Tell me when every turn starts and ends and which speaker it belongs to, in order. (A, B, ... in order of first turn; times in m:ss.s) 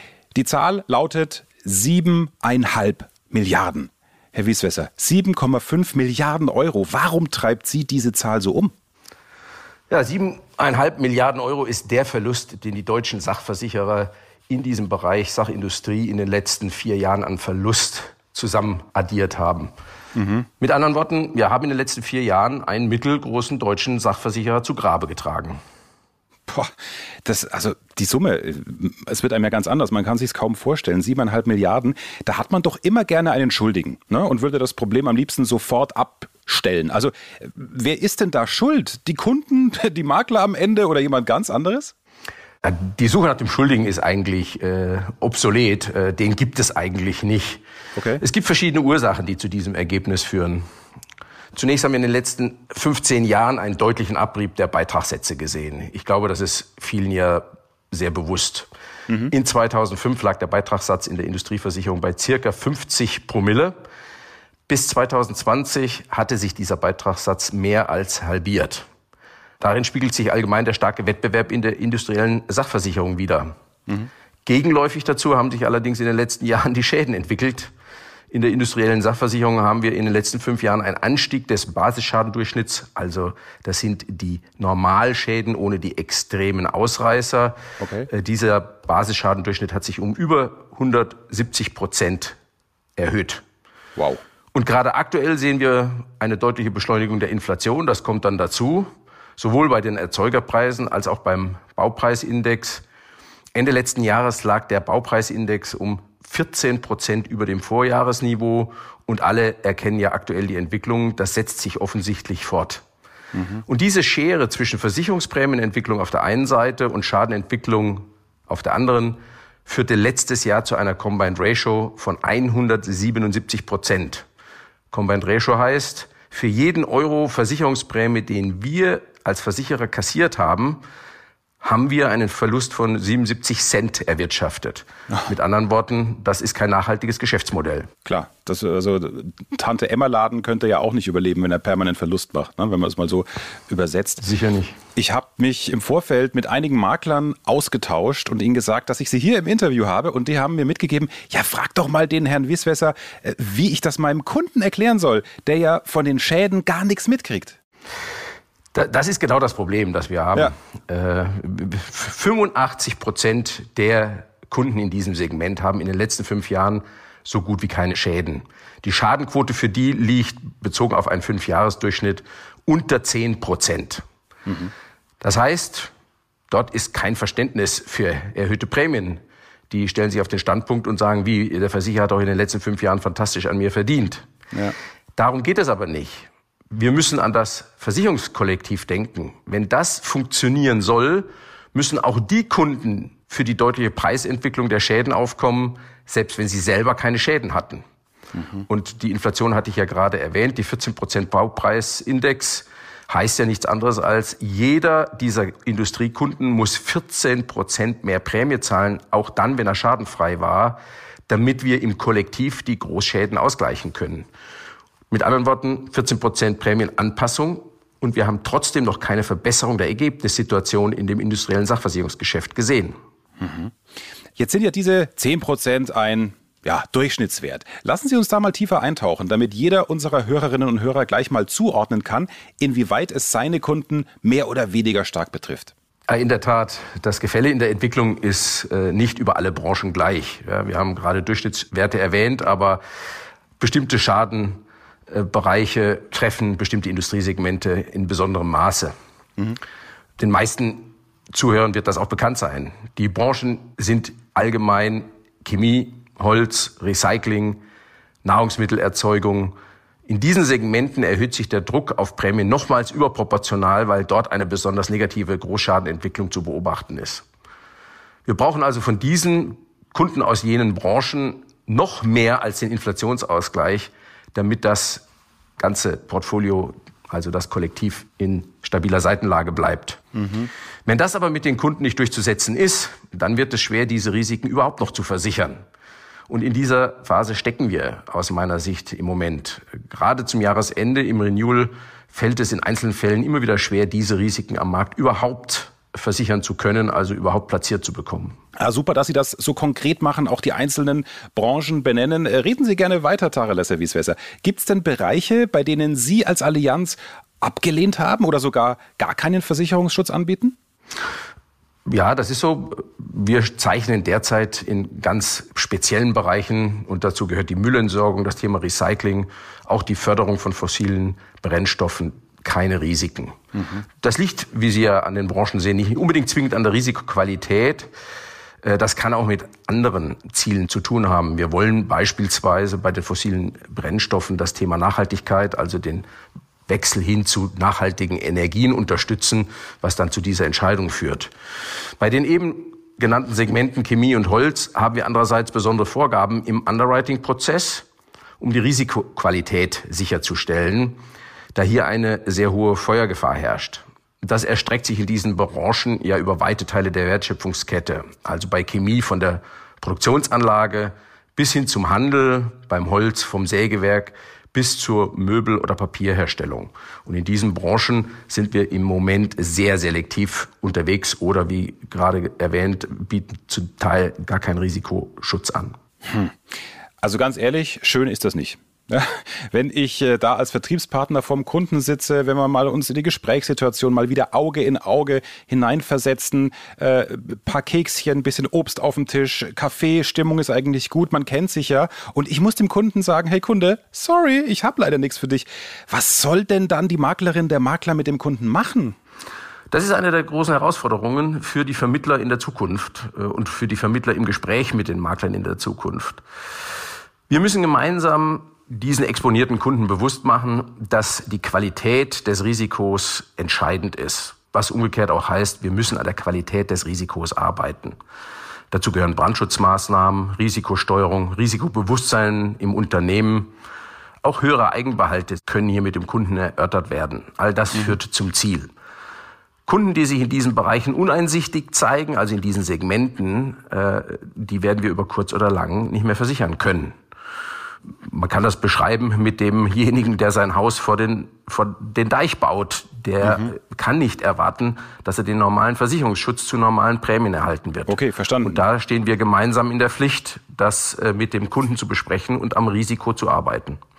0:00.3-0:08.7 A
0:09.9-0:19.7 B
0:20.1-0:20.5 A
0:20.6-0:25.6 B
0:27.2-0:41.9 A
0:42.6-0:47.6 B
0:48.0-0:48.2 A
0:48.2-0:50.6 B
0:51.5-0:58.7 B
0:59.2-1:03.8 B
1:04.7-1:08.8 B
1:09.6-1:13.5 B
1:14.4-1:17.7 B
1:18.3-1:27.6 B
1:27.8-1:28.1 A
1:28.1-1:32.4 B
1:33.0-1:33.4 B
1:34.5-1:42.8 B
1:43.5-1:52.8 B
1:53.3-1:53.6 A
1:53.6-2:04.2 B
2:04.9-2:10.8 B
2:11.6-2:17.9 B
2:18.0-2:24.3 A
2:24.2-2:24.8 B
2:25.0-2:37.6 A
2:38.7-2:54.0 B
2:54.4-2:54.7 A
2:55.2-2:55.9 B
2:56.5-3:04.2 B
3:05.2-3:17.8 B
3:18.4-3:18.6 A
3:18.7-3:34.3 B
3:35.1-3:43.0 B
3:43.4-3:43.7 A
3:44.4-3:55.7 A
3:56.1-4:02.8 B
4:03.6-4:08.9 B
4:10.2-4:17.6 B
4:18.2-4:19.6 B
4:20.1-4:27.2 B
4:28.3-4:35.0 B
4:35.6-4:40.0 B
4:40.2-4:40.5 A
4:40.8-4:45.6 B
4:46.3-4:58.4 B
4:58.6-5:10.6 A
5:11.8-5:23.4 B
5:24.0-5:27.9 B
5:28.6-5:36.0 B
5:36.7-5:41.3 B
5:42.0-5:47.8 B
5:48.4-5:51.0 B
5:51.5-6:15.8 B
6:16.0-6:16.3 A
6:17.0-6:39.0 A
6:39.7-6:46.2 B
6:47.3-6:58.0 B
6:58.7-7:03.5 B
7:04.2-7:08.7 B
7:09.7-7:16.9 B
7:18.1-7:33.8 B
7:23.2-7:23.5 A
7:27.9-7:28.6 A